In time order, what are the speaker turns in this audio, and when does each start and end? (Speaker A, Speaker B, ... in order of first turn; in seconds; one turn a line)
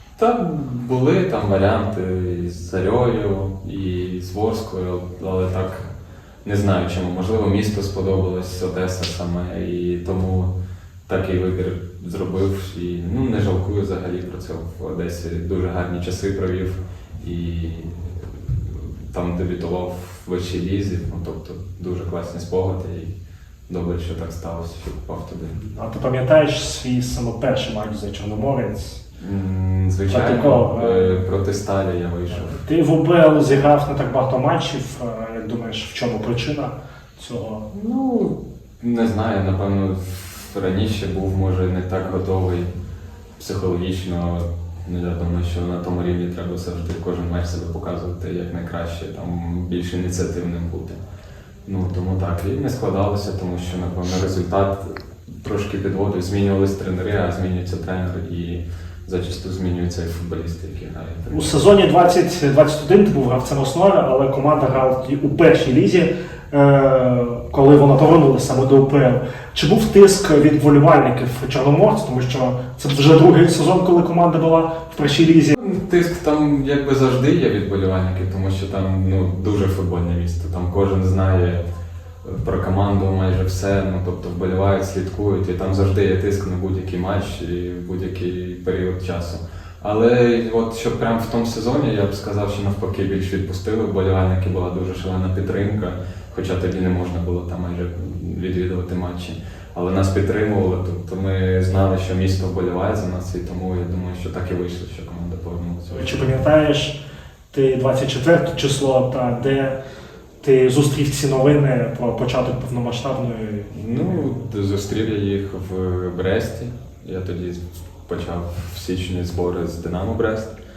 Speaker A: 0.2-5.9
Speaker A: 6.4-10.5
Speaker A: 11.1-23.1
Speaker A: 23.7-25.6
Speaker B: 25.5-29.0
Speaker A: 29.2-32.6
Speaker B: 30.1-31.2
Speaker B: 32.3-37.7
Speaker A: 37.7-42.7
Speaker A: 43.4-51.0
Speaker A: 51.6-61.6
Speaker B: 61.3-75.5
Speaker A: 75.5-81.6
Speaker A: 82.2-106.3
Speaker B: 105.9-107.0
Speaker B: 107.5-109.8
Speaker B: 110.4-113.7
Speaker A: 113.7-120.6